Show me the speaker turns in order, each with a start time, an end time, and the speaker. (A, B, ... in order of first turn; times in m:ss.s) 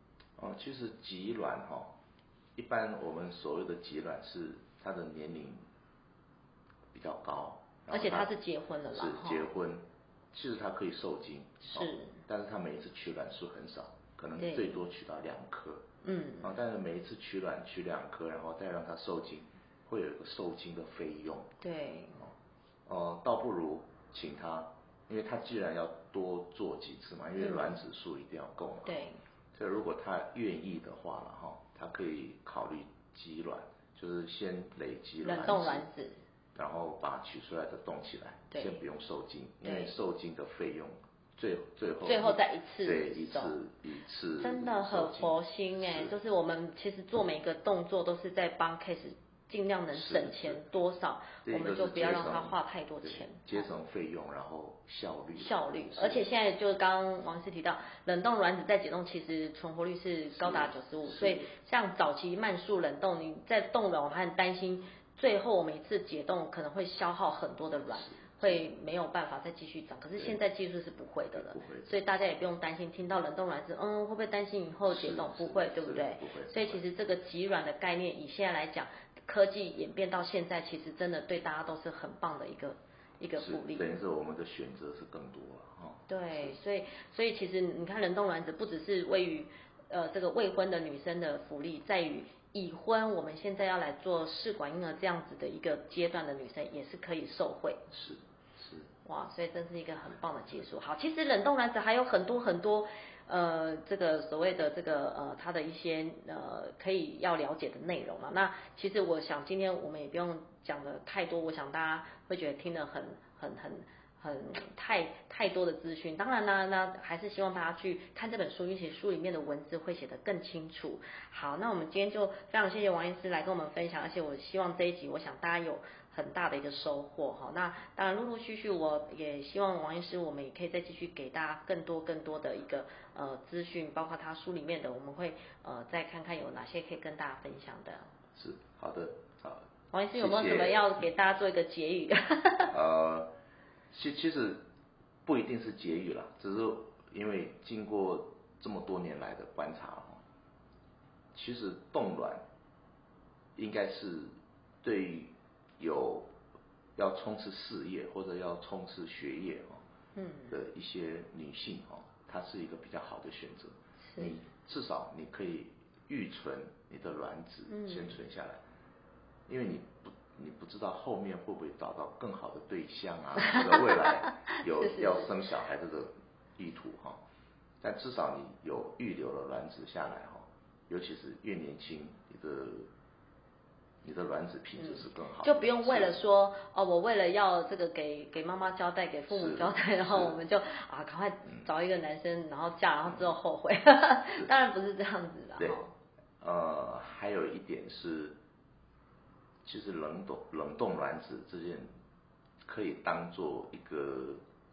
0:00.4-0:01.9 A
0:02.6-0:05.6 A
0:06.9-0:08.3 A
0:07.9-0:09.5 B
0:08.9-0:15.8 A
0:11.6-0:12.2 B
0:14.4-0:14.9 B
0:16.0-0:16.6 B
0:16.4-0:21.5 A
0:21.6-0:22.2 B
0:22.9-0:35.9 A
0:27.4-0:27.8 B
0:28.8-0:29.2 B
0:35.2-0:36.2 B
0:36.6-0:46.1 A
0:38.5-0:38.8 B
0:39.6-0:40.0 B
0:42.0-0:43.6 B
0:44.4-0:53.7 B
0:49.9-0:50.6 A
0:51.4-0:56.3 A
0:55.4-1:23.9 B
1:00.4-1:01.5 A
1:08.0-1:08.6 A
1:11.4-1:11.9 A
1:14.9-1:16.8 A
1:23.4-1:26.6 A
1:26.1-1:37.8 B
1:37.9-1:38.9 A
1:39.0-2:18.1 B
2:18.4-2:20.8 A
2:19.9-2:22.8 B
2:22.7-2:23.3 A
2:23.9-2:24.6 A
2:25.3-2:30.2 A
2:31.3-2:32.4 A
2:33.6-2:36.3 A
2:37.0-2:39.8 A
2:40.2-2:40.6 B
2:40.5-2:48.6 A
2:44.0-2:44.4 B
2:47.7-2:48.2 B
2:49.5-2:57.2 A
2:53.4-2:55.4 B
2:57.8-3:02.9 A
3:04.0-3:06.2 A
3:04.8-3:15.9 B
3:09.3-3:10.4 A
3:16.4-3:18.4 A
3:19.6-3:21.9 A
3:22.6-3:24.4 A